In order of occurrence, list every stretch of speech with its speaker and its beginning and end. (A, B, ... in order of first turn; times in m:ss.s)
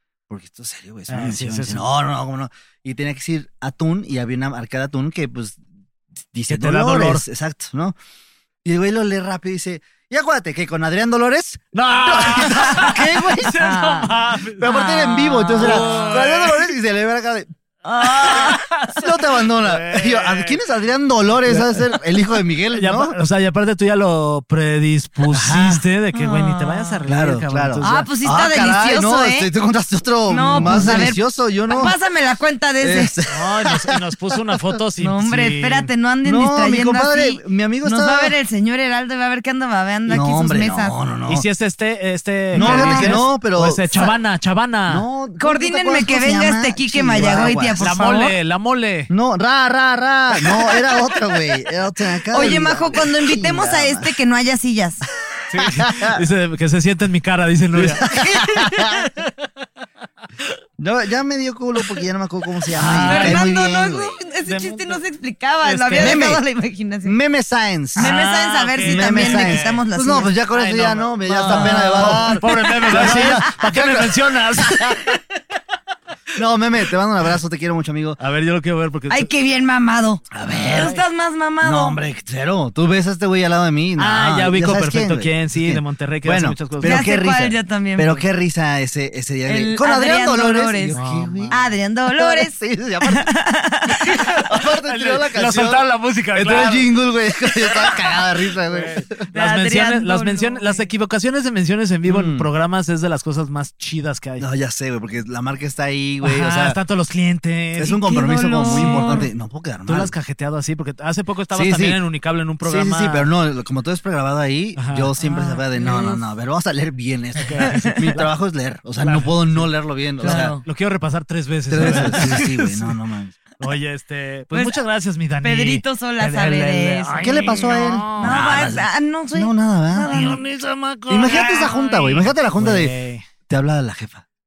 0:00.3-0:05.6 A
0:01.1-0:01.8 B
0:06.3-0:08.0 A
0:06.5-0:07.2 B
0:08.6-0:13.7 A
0:11.7-0:14.7 B
0:13.6-0:16.2 C
0:14.5-0:17.5 A
0:15.6-0:16.6 B
0:17.8-0:18.6 C
0:18.0-0:20.6 B
0:18.2-0:23.2 A
0:21.4-0:22.0 B
0:22.7-0:28.1 B
0:25.3-0:25.8 A
0:26.1-0:27.0 C
0:27.1-0:31.9 A
0:27.8-0:29.5 C
0:30.3-0:33.1 C
0:30.5-0:31.0 B
0:32.8-0:34.6 A
0:33.3-0:35.9 B
0:35.0-0:41.0 C
0:36.2-0:38.3 A
0:40.1-0:41.4 A
0:41.3-0:45.0 B
0:42.5-0:44.1 A
0:42.5-0:43.2 C
0:44.9-0:48.1 A
0:45.4-0:48.3 C
0:47.2-0:49.1 B
0:49.1-0:54.1 A
0:52.3-0:55.0 C
0:55.5-0:58.1 B
0:55.5-0:56.2 A
0:57.7-0:59.1 A
0:58.0-0:58.7 C
0:58.9-0:59.3 B
1:00.8-1:04.1 A
1:02.7-1:03.4 B
1:03.0-1:07.2 C
1:04.4-1:05.0 B
1:05.6-1:06.3 B
1:05.9-1:06.4 A
1:07.0-1:08.1 A
1:08.0-1:09.8 B
1:08.0-1:10.3 C
1:08.8-1:15.0 A
1:10.5-1:15.2 B
1:11.4-1:12.4 C
1:16.3-1:18.2 A
1:18.2-1:19.3 B
1:19.1-1:22.0 C
1:20.3-1:21.0 A
1:20.5-1:21.0 B
1:21.6-1:33.3 A
1:24.0-1:27.0 B
1:26.8-1:28.2 C
1:29.4-1:31.0 C
1:30.9-1:31.6 B
1:31.5-1:34.3 C
1:34.1-1:36.9 B
1:34.3-1:39.2 A
1:38.6-1:44.5 B
1:39.3-1:40.9 C
1:42.0-1:42.5 A
1:44.4-1:46.8 A
1:46.2-1:48.1 B
1:47.8-1:50.1 A
1:48.0-1:49.2 C
1:48.7-1:49.3 B
1:49.8-1:53.3 B
1:51.5-1:52.0 A
1:52.6-2:00.6 A
1:54.8-1:55.1 B
1:55.2-1:56.2 C
1:57.4-1:58.3 B
1:57.6-1:58.0 C
1:59.0-2:03.0 B
2:00.2-2:00.6 C
2:01.7-2:03.4 A
2:01.8-2:02.3 C
2:03.6-2:08.4 B
2:04.5-2:04.8 C
2:05.4-2:10.4 C
2:07.2-2:10.3 A
2:09.9-2:13.2 B
2:11.1-2:12.9 A
2:13.5-2:14.2 A